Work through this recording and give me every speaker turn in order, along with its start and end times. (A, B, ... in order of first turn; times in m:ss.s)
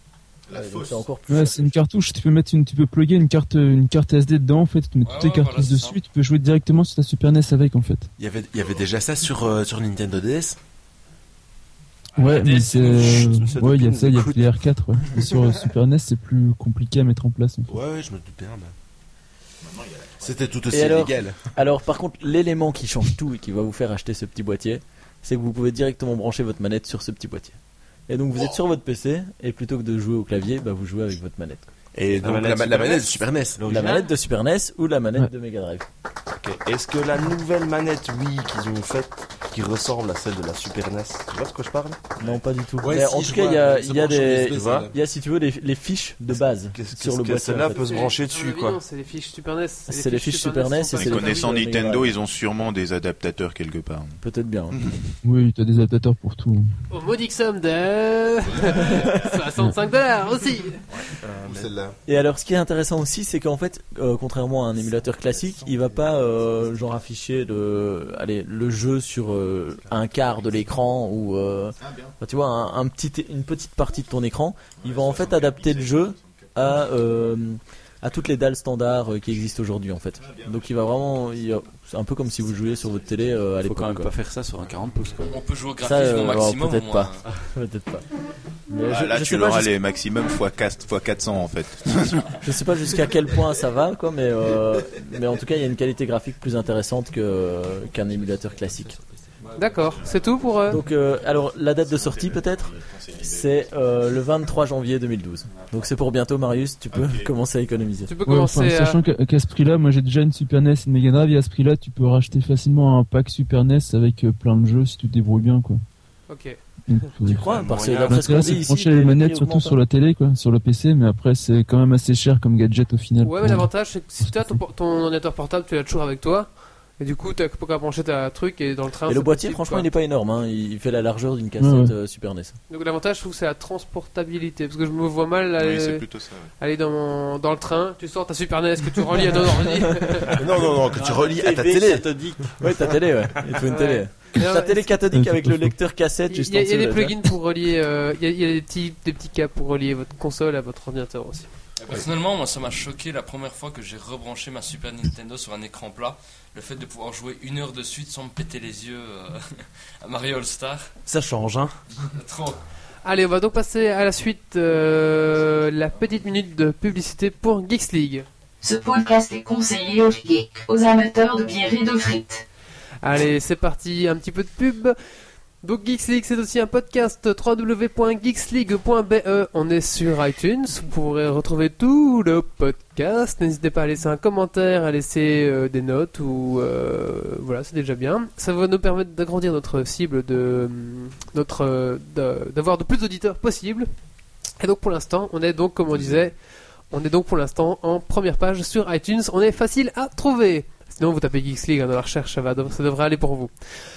0:00.5-0:01.7 A
0:00.5-0:01.6 B
0:01.3-0:08.1 C
0:05.0-0:06.0 D
0:08.2-0:10.6 E
0:12.2-0:17.7 C
0:12.2-0:13.4 D
0:12.8-0:14.5 F
0:17.7-0:18.7 E
0:19.6-0:20.4 B
0:20.2-0:21.4 E
0:20.7-0:27.6 A
0:28.1-0:31.7 A
0:31.9-0:33.9 E
0:32.2-0:33.9 F
0:33.6-0:35.9 A
0:33.8-0:34.1 G
0:36.3-0:42.1 F
0:42.2-0:48.1 A
0:42.8-0:44.9 E
0:44.6-0:44.9 F
0:46.7-0:48.8 F
0:47.8-0:51.5 G
0:49.9-0:52.2 A
0:51.0-0:54.2 B
0:54.2-0:54.9 A
0:55.2-0:56.7 C
0:56.9-1:00.8 G
0:58.8-0:59.2 A
1:01.2-1:01.7 F
1:01.5-1:02.0 E
1:02.1-1:24.2 A
1:11.8-1:12.2 B
1:14.8-1:16.5 B
1:20.2-1:20.7 B
1:23.6-1:25.3 H
1:25.3-1:27.2 D
1:25.8-1:28.0 A
1:28.7-1:29.7 A
1:28.8-1:32.4 B
1:32.3-1:39.0 A
1:39.6-1:40.8 G
1:39.8-1:40.1 B
1:40.7-1:48.1 A
1:41.9-1:43.5 B
1:46.9-1:47.3 B
1:48.1-1:49.0 G
1:48.2-1:55.8 C
1:56.3-1:57.0 G
1:56.9-2:04.6 C
1:57.3-1:59.8 A
1:57.3-1:58.6 F
2:03.2-2:09.9 G
2:09.1-2:12.6 A
2:11.6-2:11.9 C
2:12.7-2:16.1 G
2:15.6-2:16.5 B
2:16.6-2:20.4 G
2:20.3-2:22.2 E
2:21.0-2:22.4 H
2:22.6-2:27.2 A
2:23.7-2:25.0 G
2:25.1-2:25.8 C
2:26.3-2:31.5 G
2:31.8-2:40.9 D
2:42.1-2:42.6 D
2:43.0-2:48.3 G
2:48.6-2:52.4 I
2:53.0-2:55.0 G
2:55.6-3:13.9 G
3:14.6-3:16.4 G
3:16.9-3:23.5 G